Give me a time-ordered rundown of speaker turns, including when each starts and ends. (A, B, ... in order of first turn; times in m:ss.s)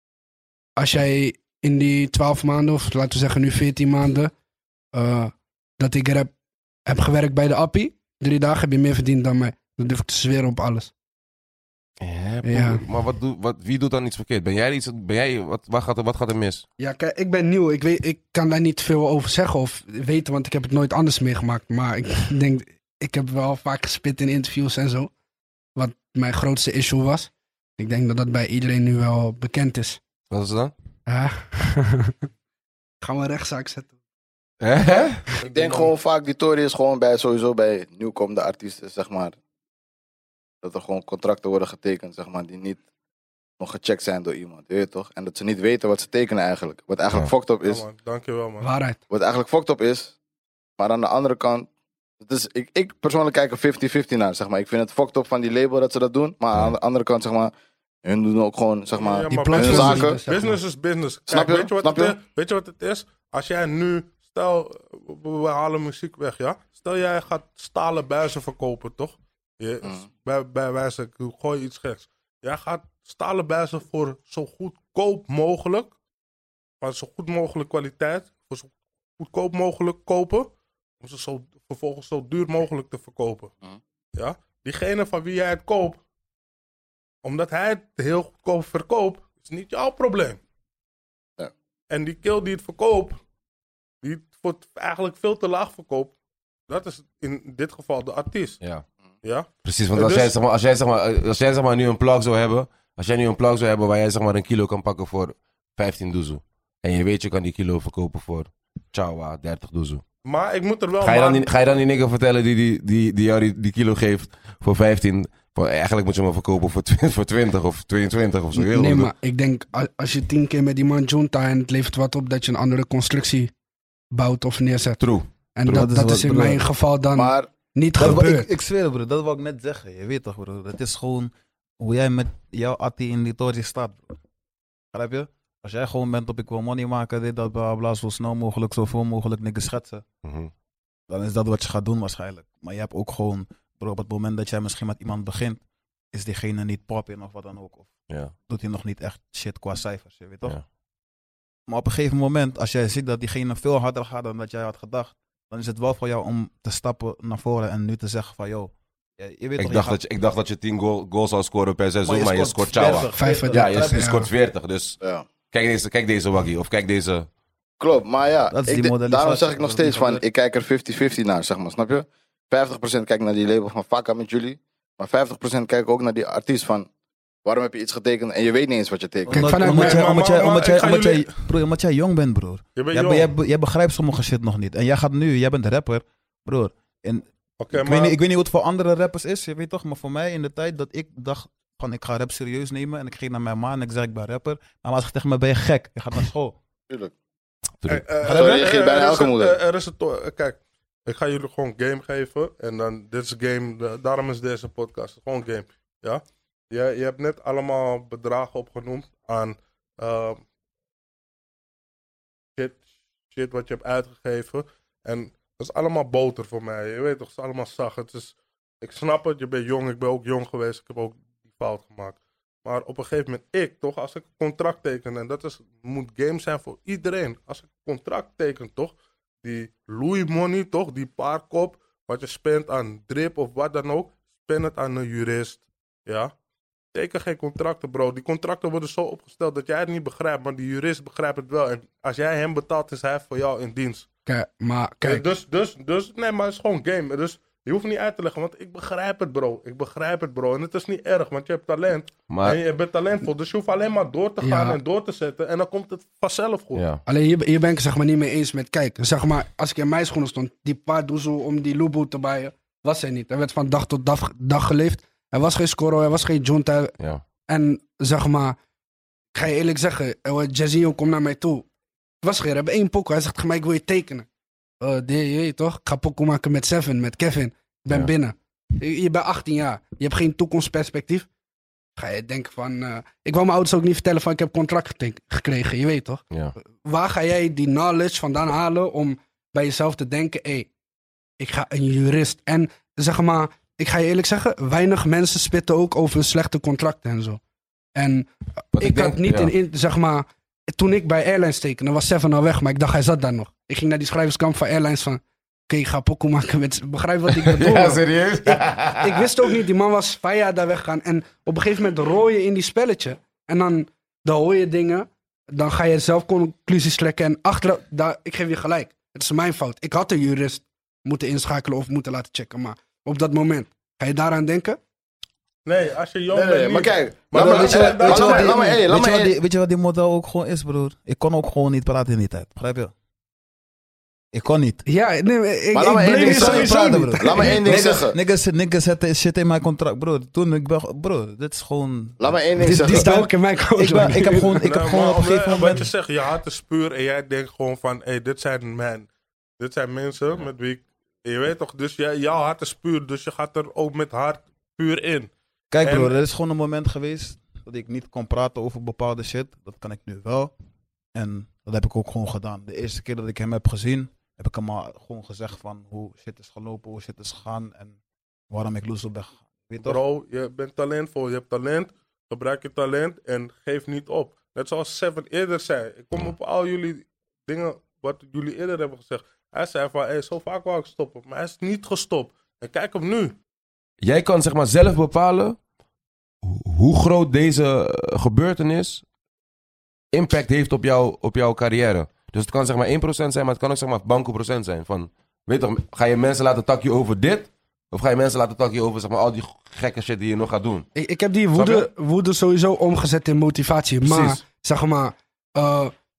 0:00.8-0:04.3 A
0:04.9-0:06.3 A
0:06.9-0:10.9 A
0:12.0-0:16.6 B
0:12.4-0:12.8 A
0:16.8-0:25.1 A
0:25.8-0:30.0 A
0:30.3-0:30.7 B
0:31.1-0:32.2 A
0:33.0-0:33.9 A
0:34.6-0:35.2 B
0:35.4-0:35.9 C
0:35.5-0:39.3 D
0:40.6-0:42.8 D
0:43.6-0:47.8 D
0:47.6-0:48.7 C
0:48.6-0:49.0 A
0:49.1-0:50.1 D
0:50.8-0:51.7 D
0:52.2-0:57.5 D
0:58.0-1:00.2 D
0:58.9-1:15.9 C
0:59.3-1:00.6 A
1:01.3-1:02.2 D
1:16.8-1:23.5 C
1:24.1-1:26.0 C
1:27.2-1:30.4 C
1:31.9-1:33.2 C
1:34.0-1:36.1 C
1:36.7-1:38.6 C
1:39.2-1:40.3 C
1:39.6-1:50.0 B
1:50.2-1:51.5 C
1:51.0-1:59.1 B
1:58.5-2:03.5 A
2:04.1-2:05.0 A
2:05.0-2:05.3 B
2:05.6-2:08.5 A
2:05.6-2:06.6 E
2:07.1-2:07.5 D
2:08.0-2:14.2 E
2:14.9-2:20.0 E
2:20.2-2:20.5 B
2:21.1-2:25.6 E
2:26.1-2:27.9 E
2:28.5-2:30.6 E
2:31.7-2:40.0 E
2:39.6-2:45.0 B
2:42.0-2:44.1 E
2:43.1-2:44.3 A
2:45.0-2:45.2 D
2:45.5-2:47.3 B
2:47.8-2:56.9 D
2:48.5-2:50.2 E
2:57.4-2:59.6 D
2:59.3-3:16.6 E
2:59.3-3:00.1 A
2:59.4-3:01.4 C
3:02.8-3:03.3 C
3:07.6-3:08.2 C
3:17.9-3:30.4 C
3:18.2-3:19.6 D
3:18.2-3:18.6 E
3:32.6-3:56.3 C
3:56.9-4:04.1 C
4:04.2-4:05.3 A
4:05.0-4:16.9 C
4:12.3-4:12.6 B
4:14.4-4:14.8 A
4:16.7-4:17.0 B
4:17.0-4:26.9 A
4:27.5-4:28.6 A
4:29.3-4:31.6 A
4:32.2-4:34.3 A
4:34.8-4:41.3 A
4:42.0-4:46.2 A
4:46.8-4:50.7 A
4:51.4-4:57.4 A
4:58.0-5:24.8 A
4:58.7-4:59.5 B
5:07.3-5:09.3 B
5:25.6-5:28.6 C
5:26.3-5:29.3 D
5:27.3-5:32.9 E
5:34.3-5:34.8 E
5:34.8-5:37.6 A
5:35.7-5:38.2 D
5:36.1-5:45.9 E
5:37.6-5:38.0 B
5:42.2-5:43.1 D
5:42.6-5:44.7 A
5:44.6-5:55.3 C
5:55.7-6:00.5 E
5:55.8-5:56.1 C
6:01.1-6:08.0 E
6:08.5-6:10.0 E
6:09.8-6:23.3 C
6:24.0-6:25.6 B
6:26.4-6:29.0 B
6:30.1-6:40.9 B
6:41.0-6:45.9 A
6:41.5-6:41.9 B
6:44.0-6:44.4 B